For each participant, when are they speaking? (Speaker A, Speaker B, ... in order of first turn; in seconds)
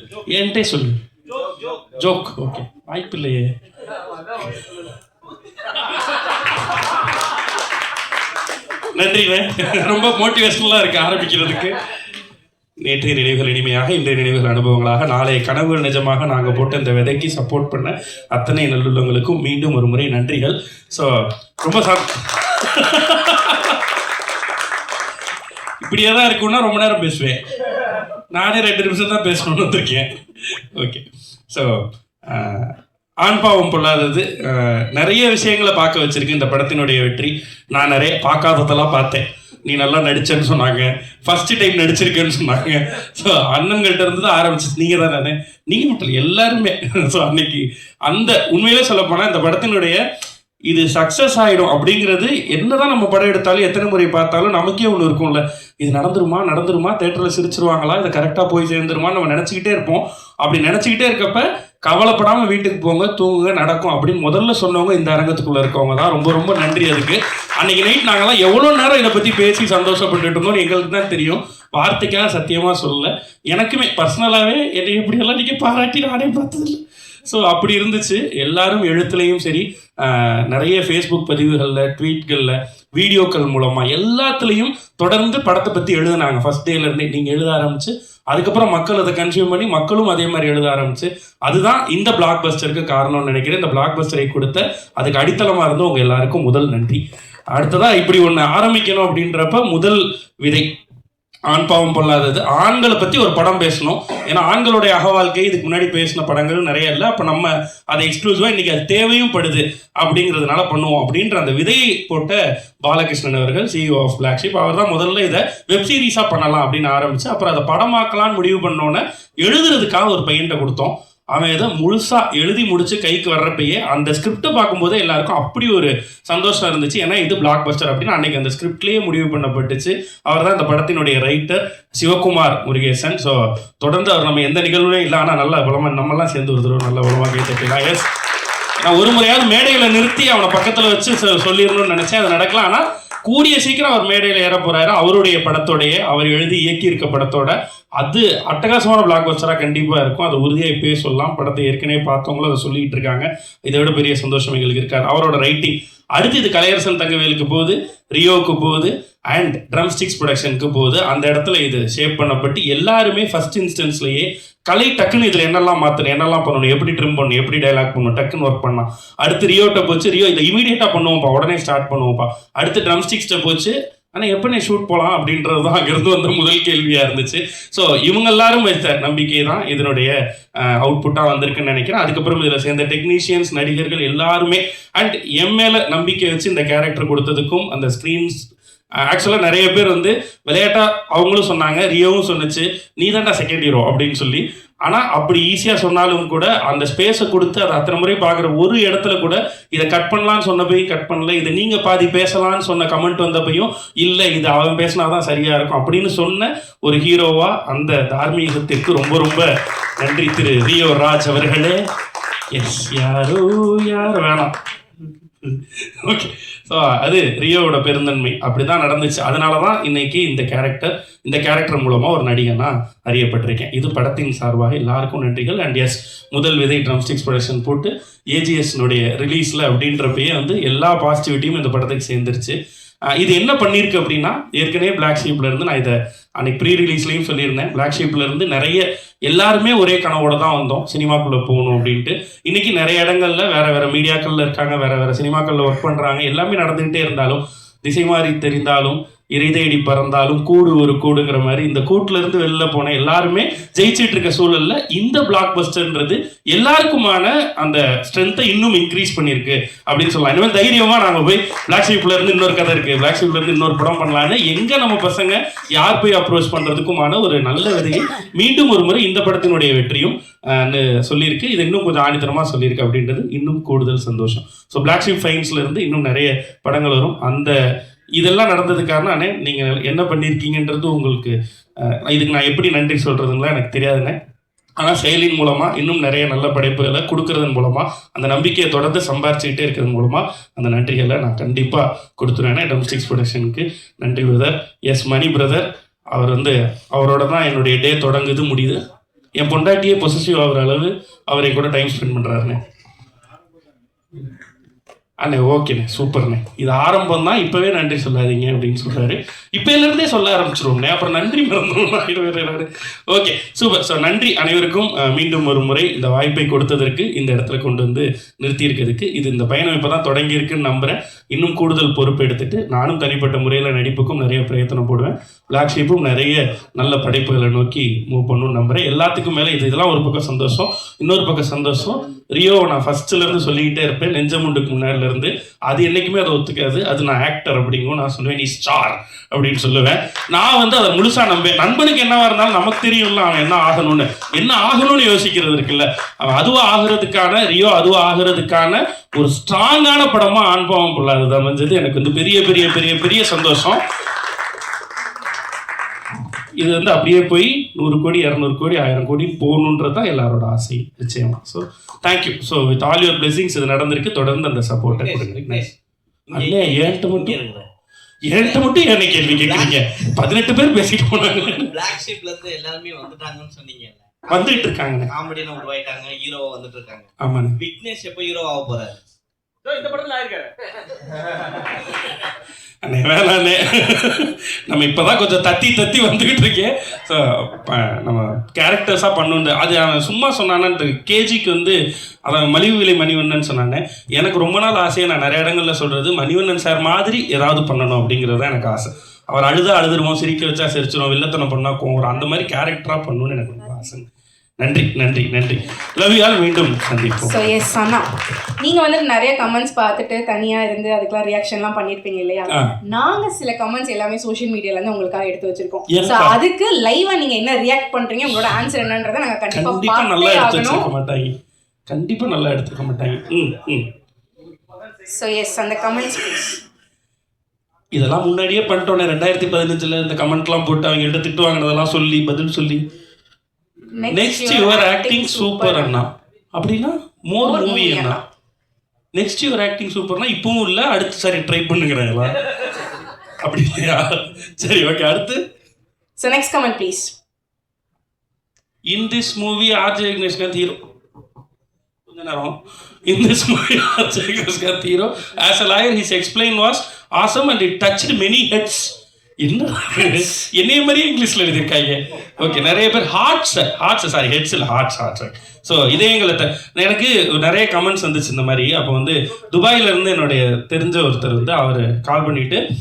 Speaker A: 0.3-1.0, 1.9-3.5, 8.9-11.8, 12.8-23.9, 25.8-27.4, 28.3-50.0, 50.7-97.0, 97.5-100.7, 101.5-138.1, 138.8-188.5, 189.0-211.8, 212.5-214.5, 215.4-232.5, 233.1-277.6, 278.2-284.2, 284.8-298.8, 299.4-302.6, 305.2-353.8, 356.6-365.7, 366.3-367.4, 368.2-371.8, 374.3-375.1, 377.2-377.6, 382.8-404.1, 404.6-407.5, 415.9-416.4, 419.5-421.4, 421.9-423.9, 427.9-432.8, 434.1-438.2, 439.1-442.4, 443.4-445.4, 448.9-450.8, 452.1-472.6
Speaker B: 364.9-365.7, 366.3-367.7, 368.3-368.6, 369.4-370.0, 371.6-379.0, 379.7-380.2
Speaker C: 407.2-408.1, 408.6-420.9, 425.1-426.6, 434.0-436.0, 437.4-438.2, 446.2-447.1